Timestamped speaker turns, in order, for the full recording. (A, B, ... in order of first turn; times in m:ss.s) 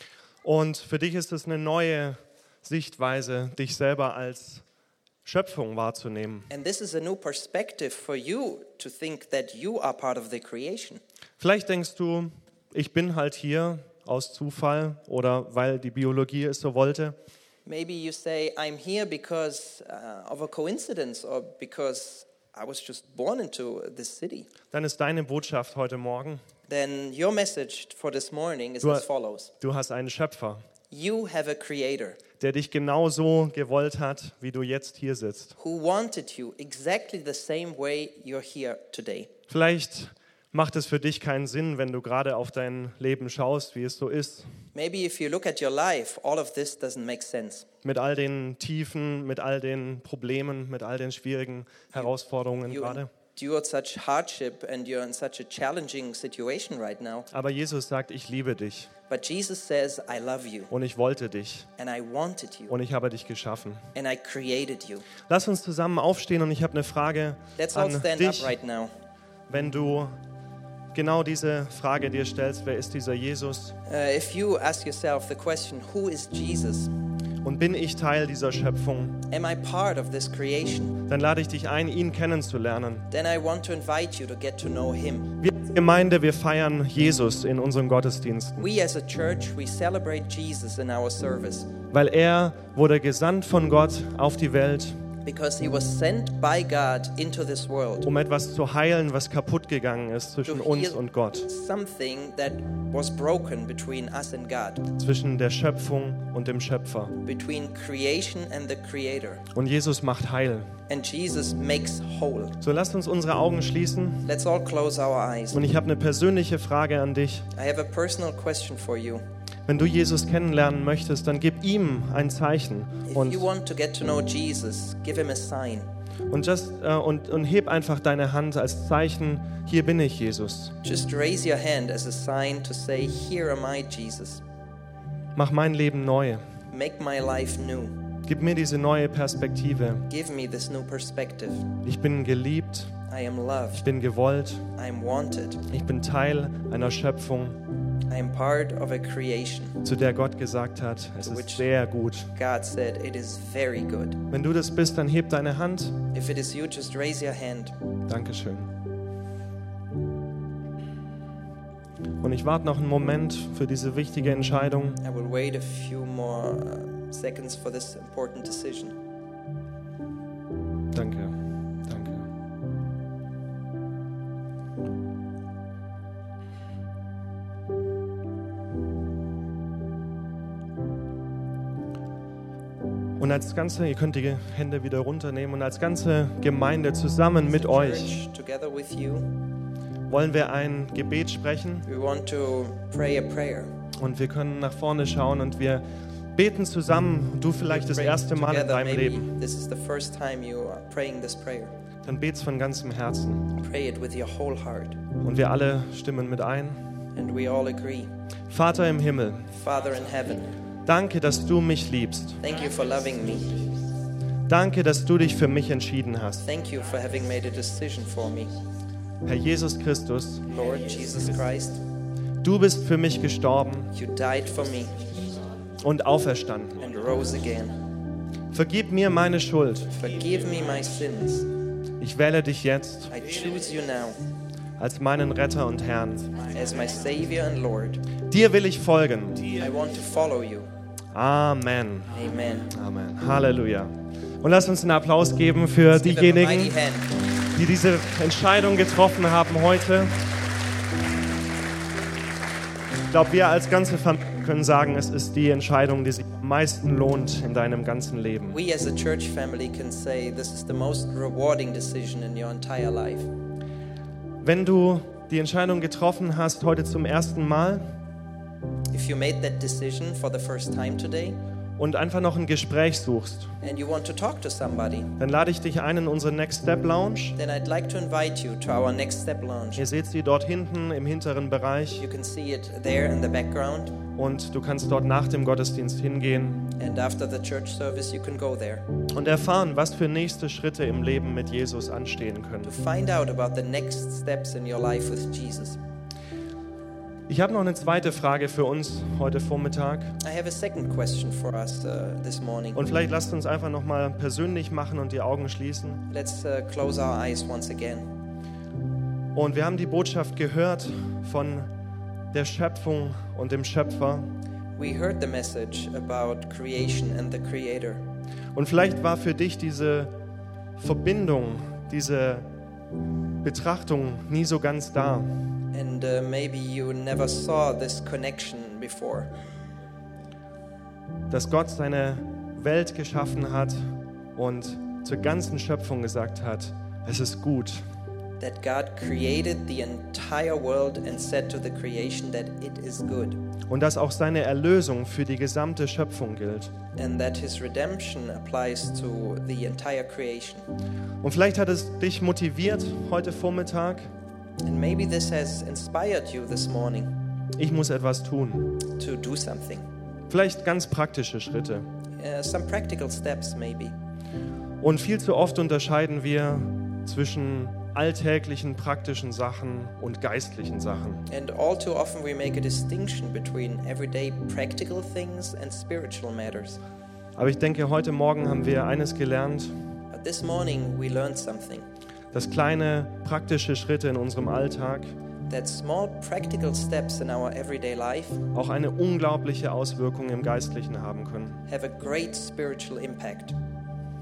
0:00.4-0:04.6 A
0:05.2-0:06.5 A
0:06.5-0:11.0 B
0:11.4-0:17.2 A
0:17.6-0:24.5 B
0:24.7-0:26.4 A
0:26.7-0:29.5 B
0:28.8-0:29.1 A
0:29.6-0:30.6 A
0:30.9-0:32.2 B
0:32.4-0:35.5 A
0:35.6-0:39.3 B
0:39.5-0:44.5 A
0:44.7-0:47.6 B
0:47.8-0:53.1 A
0:52.7-0:57.3 B
0:57.3-0:58.9 A
0:59.1-1:00.7 B
1:00.7-1:01.7 A
1:01.8-1:02.7 B
1:02.7-1:03.9 A
1:03.9-1:05.1 B
1:05.3-1:08.6 A
1:07.6-1:08.9 B
1:09.5-1:10.2 A
1:10.9-1:13.8 A
1:13.8-1:16.9 B
1:17.4-1:19.2 A
1:19.3-1:21.0 B
1:21.1-1:23.1 A
1:23.1-1:25.3 B
1:25.4-1:28.6 A
1:28.6-1:31.7 B
1:31.9-1:35.0 A
1:35.2-1:38.1 B
1:38.0-1:41.5 A
1:40.4-1:44.9 B
1:45.0-1:47.1 A
1:47.2-1:49.4 B
1:49.5-1:50.8 A
1:50.9-1:52.6 B
1:52.6-1:54.3 A
1:54.2-1:55.6 B
1:55.5-1:57.5 A
1:57.5-1:59.2 B
1:59.7-2:03.5 A
2:03.1-2:05.9 B
2:06.3-2:10.7 A
2:10.8-2:14.4 B
2:15.4-2:16.4 A
2:16.7-2:18.0 B
2:18.2-2:20.1 A
2:20.1-2:21.7 B
2:21.8-2:23.0 A
2:23.1-2:23.8 B
2:23.7-2:24.7 A
2:24.8-2:25.6 B
2:25.7-2:27.6 A
2:28.1-2:29.8 B
2:29.8-2:32.3 A
2:31.2-2:31.7 B
2:32.3-2:34.2 B
2:34.3-2:36.0 A
2:36.1-2:37.7 B
2:38.1-2:38.7 A
2:42.2-2:45.0 A
2:45.0-2:49.0 B
2:50.9-2:52.3 A
3:03.2-3:08.1 A
3:07.4-3:09.3 B
3:10.1-3:11.9 A
3:11.8-3:13.7 B
3:14.0-3:19.3 A
3:17.7-3:21.7 B
3:22.0-3:23.5 A
3:23.5-3:25.0 B
3:25.2-3:26.8 A
3:27.1-3:28.1 B
3:28.5-3:29.5 A
3:29.5-3:30.5 B
3:30.8-3:32.4 A
3:32.4-3:33.7 B
3:34.5-3:36.4 A
3:36.4-3:38.5 B
3:39.2-3:40.5 A
3:40.5-3:41.8 B
3:42.4-3:43.9 A
3:43.9-3:45.2 B
3:45.8-3:46.8 A
3:46.8-3:47.8 B
3:48.5-3:49.9 A
3:49.9-3:51.5 B
3:52.0-3:53.1 A
3:53.1-3:54.2 B
3:54.8-3:56.3 A
3:56.4-3:58.0 B
3:58.3-3:59.6 A
3:59.6-4:00.7 B
4:01.1-4:02.2 A
4:02.1-4:02.7 B
4:02.7-4:06.8 A
4:05.9-4:07.1 B
4:07.5-4:10.2 A
4:13.1-4:18.6 A
4:18.5-4:23.3 B
4:24.4-4:27.8 A
4:28.9-4:31.4 B
4:31.8-4:33.5 A
4:33.6-4:35.1 B
4:35.2-4:37.4 A
4:37.4-4:39.8 B
4:39.8-4:42.0 A
4:42.0-4:44.0 B
4:44.1-4:46.7 A
4:46.7-4:48.8 B
4:49.1-4:52.7 A
4:52.6-4:55.8 B
4:57.3-5:00.2 A
5:00.2-5:02.8 B
5:02.7-5:06.0 A
5:06.1-5:08.1 B
5:09.3-5:11.7 A
5:12.3-5:14.3 A
5:14.8-5:18.0 B
5:18.5-5:20.1 A
5:20.8-5:22.5 A
5:23.4-5:25.3 A
5:25.7-5:29.3 B
5:31.3-5:37.8 A
5:38.4-5:43.4 B
5:43.7-5:46.7 A
5:46.9-5:50.6 B
5:51.2-5:54.1 A
5:54.6-5:57.1 B
5:57.6-5:58.8 A
5:58.9-5:59.9 B
6:00.3-6:01.9 A
6:02.2-6:03.9 B
6:04.8-6:11.3 A
6:11.3-6:16.8 B
6:17.4-6:19.8 A
6:20.1-6:21.9 B
6:22.3-6:25.1 A
6:25.5-6:28.4 B
6:28.5-6:31.6 A
6:31.7-6:33.6 B